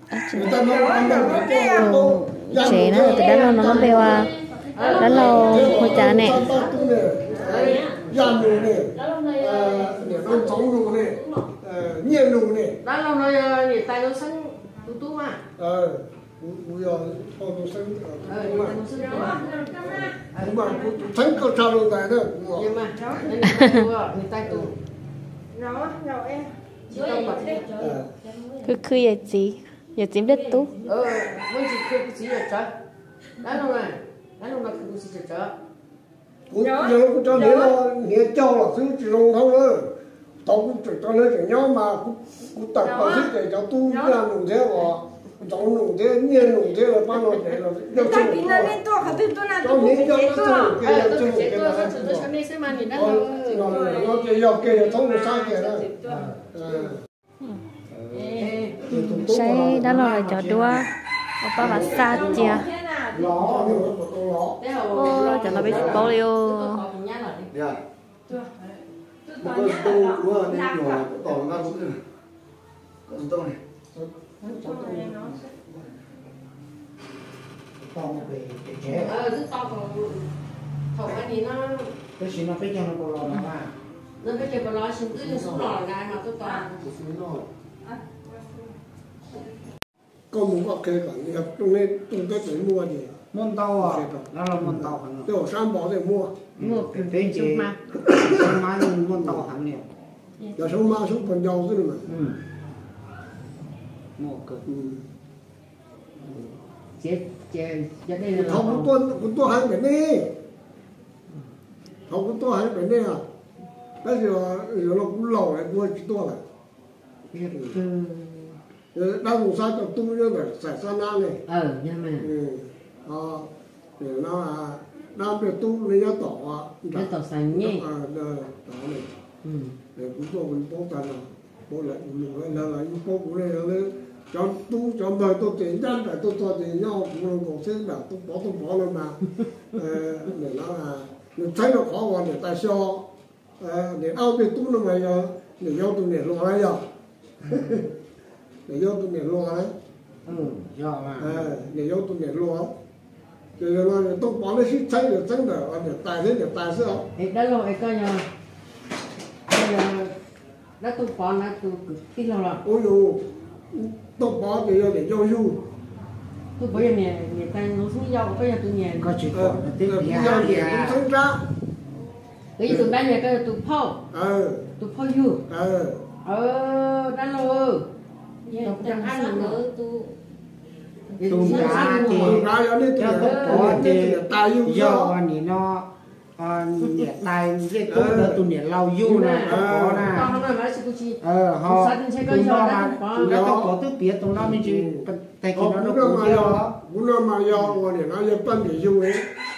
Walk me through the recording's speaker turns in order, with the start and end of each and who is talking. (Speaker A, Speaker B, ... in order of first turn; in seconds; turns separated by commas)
Speaker A: 0.1-0.9, Speaker B: 0.3-4.3, Speaker C: 0.7-1.9, Speaker A: 1.7-4.3, Speaker D: 2.6-6.6, Speaker C: 4.2-6.9, Speaker A: 5.0-6.5, Speaker B: 5.1-12.8, Speaker D: 7.3-8.1, Speaker C: 9.0-11.3, Speaker D: 12.8-15.4, Speaker B: 15.6-18.8, Speaker D: 18.2-19.5, Speaker C: 19.1-20.0, Speaker B: 19.8-22.8, Speaker C: 20.7-21.0, Speaker D: 22.5-24.7, Speaker A: 23.6-23.9, Speaker C: 25.6-28.7, Speaker D: 26.9-27.8, Speaker B: 27.8-28.1, Speaker A: 28.6-30.8, Speaker C: 30.3-30.8, Speaker D: 30.8-32.7, Speaker D: 33.4-35.5, Speaker B: 36.5-39.9, Speaker B: 40.4-48.8, Speaker C: 48.0-50.8, Speaker B: 49.5-52.3, Speaker D: 50.3-53.7, Speaker B: 52.9-55.9, Speaker C: 53.1-54.3, Speaker C: 54.8-55.9, Speaker E: 56.0-56.4, Speaker B: 56.5-57.0, Speaker E: 57.9-60.9, Speaker D: 58.3-58.8, Speaker B: 58.9-59.5, Speaker A: 58.9-62.7, Speaker E: 61.6-63.9, Speaker D: 62.1-62.5, Speaker C: 62.5-63.2, Speaker B: 63.4-64.6, Speaker D: 64.6-67.5, Speaker A: 64.9-66.8, Speaker B: 65.1-66.0, Speaker E: 65.7-66.0, Speaker F: 67.5-67.8, Speaker F: 69.4-72.0, Speaker C: 69.4-71.0, Speaker F: 73.1-73.6, Speaker E: 74.4-75.3, Speaker C: 74.9-75.3, Speaker E: 77.8-79.2, Speaker D: 78.9-80.3, Speaker D: 80.9-81.9, Speaker E: 82.2-83.7, Speaker D: 84.2-86.9, Speaker E: 85.1-85.8, Speaker E: 86.7-87.5, Speaker B: 90.3-93.2, Speaker E: 93.3-95.3, Speaker B: 93.8-96.4, Speaker E: 96.6-99.9, Speaker D: 96.6-97.8, Speaker B: 98.1-98.6, Speaker B: 99.2-99.5, Speaker B: 100.5-102.1, Speaker E: 102.1-102.3, Speaker E: 104.2-104.6, Speaker B: 104.7-105.0, Speaker D: 107.0-108.9, Speaker B: 108.3-110.3, Speaker B: 112.1-113.2, Speaker B: 114.0-116.4, Speaker D: 117.3-118.6, Speaker B: 118.9-121.4, Speaker D: 121.5-122.3, Speaker B: 122.2-129.1, Speaker D: 126.9-127.8, Speaker D: 129.4-129.8, Speaker B: 129.9-139.2, Speaker B: 139.7-143.0, Speaker B: 143.6-146.8, Speaker B: 147.5-147.9, Speaker B: 148.7-149.7, Speaker E: 150.2-151.6, Speaker B: 151.2-152.7, Speaker B: 153.6-157.1, Speaker D: 157.2-158.3, Speaker D: 159.5-160.2, Speaker D: 160.8-162.6, Speaker B: 162.6-165.6, Speaker D: 166.6-169.1, Speaker E: 169.0-171.0, Speaker B: 169.3-171.4, Speaker D: 172.6-174.0, Speaker B: 172.7-172.9, Speaker B: 174.1-174.7, Speaker D: 174.8-175.4, Speaker B: 175.5-176.0, Speaker D: 176.2-177.9, Speaker A: 178.5-180.1, Speaker D: 178.6-179.6, Speaker A: 181.1-182.2, Speaker D: 181.2-182.5, Speaker E: 181.2-190.3, Speaker B: 182.2-185.2, Speaker D: 183.0-183.9, Speaker B: 187.8-188.5, Speaker D: 189.0-193.4, Speaker B: 189.4-190.2, Speaker E: 191.2-196.8, Speaker B: 193.2-193.7, Speaker B: 194.4-199.3